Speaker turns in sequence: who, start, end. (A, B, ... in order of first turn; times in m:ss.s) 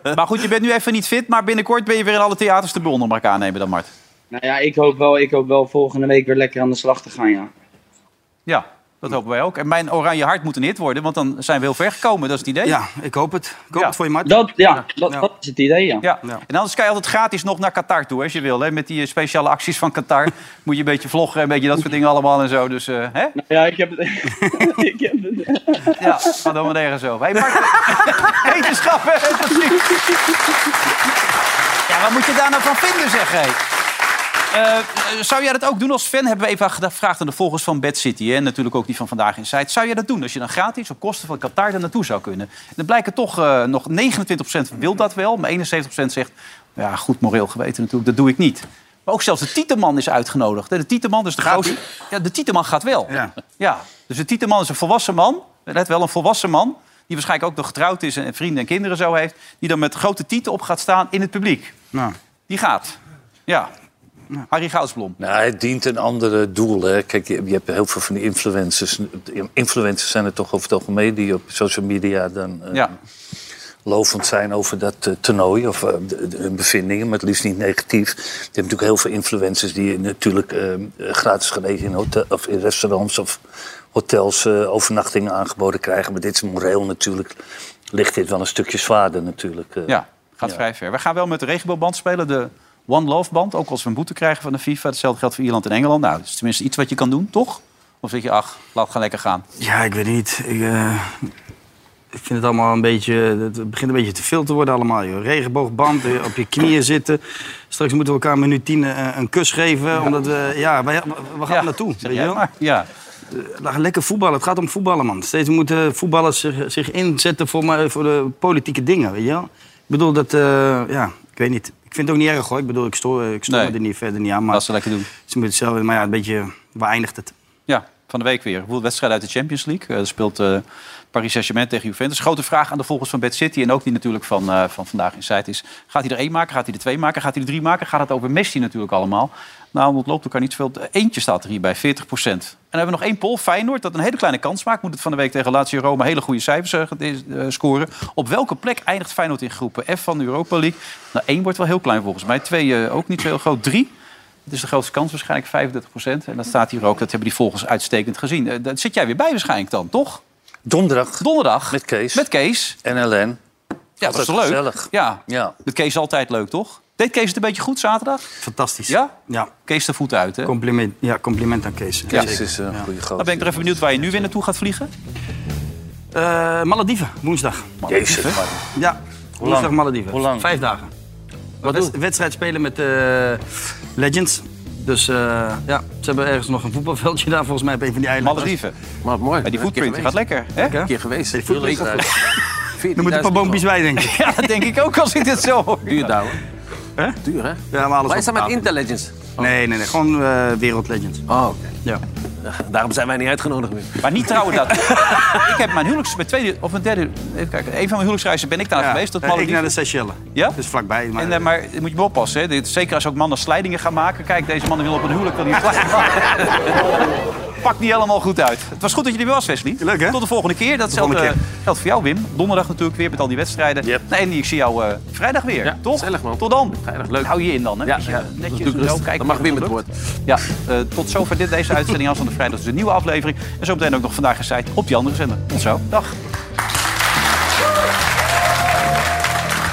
0:00.1-0:03.9 A
0:04.3-0:07.5 B
0:08.5-0:12.8 A
0:12.6-0:14.4 C
0:14.3-0:16.0 B
0:16.0-0:23.3 A
0:23.4-0:25.9 B
0:24.4-0:24.8 C
0:26.0-0:30.1 A
0:31.9-0:33.6 A
0:34.5-1:01.7 A
0:51.4-0:51.8 C
0:53.1-0:53.4 C
1:02.5-1:03.7 A
1:04.5-1:05.2 A
1:05.2-1:12.9 D
1:13.8-1:23.4 D
1:23.9-1:27.4 D
1:27.9-1:30.5 D
1:29.9-1:39.4 A
1:39.6-1:41.3 C
1:42.1-1:52.4 C
1:51.5-1:52.9 A
1:53.3-2:04.6 C
2:03.5-2:03.7 A
2:04.5-2:05.1 A
2:05.2-2:07.3 C
2:07.7-2:33.9 A
2:34.5-2:40.2 A
2:40.6-2:42.3 D
2:41.2-2:42.8 A
2:42.8-2:43.4 D
2:44.0-2:48.2 A
2:44.0-2:45.5 D
2:48.4-2:49.5 C
2:48.9-2:49.1 A
2:49.6-2:50.5 A
2:50.4-2:52.8 C
2:52.1-2:52.3 A
2:52.1-2:54.3 D
2:53.2-2:54.9 A
2:56.1-2:57.7 C
2:57.8-2:58.4 A
2:57.9-2:58.6 D
2:58.8-3:00.9 C
2:59.4-3:00.5 D
3:01.6-3:03.4 C
3:01.6-3:01.9 E
3:04.0-3:08.5 C
3:08.2-3:08.7 A
3:09.0-3:12.1 E
3:09.4-3:10.8 A
3:10.6-3:12.3 C
3:11.5-3:12.1 D
3:12.8-3:13.7 E
3:13.0-3:14.4 C
3:14.0-3:16.1 A
3:15.9-3:16.4 E
3:17.2-3:19.5 E
3:17.7-3:18.6 C
3:19.4-3:21.2 C
3:21.3-3:21.7 E
3:22.4-3:25.4 E
3:24.0-3:29.7 A
3:28.8-3:31.4 C
3:31.2-3:36.7 A
3:37.6-3:56.1 A
3:39.8-3:40.2 C
3:40.9-3:41.3 C
3:45.6-3:47.3 E
3:47.8-3:49.9 E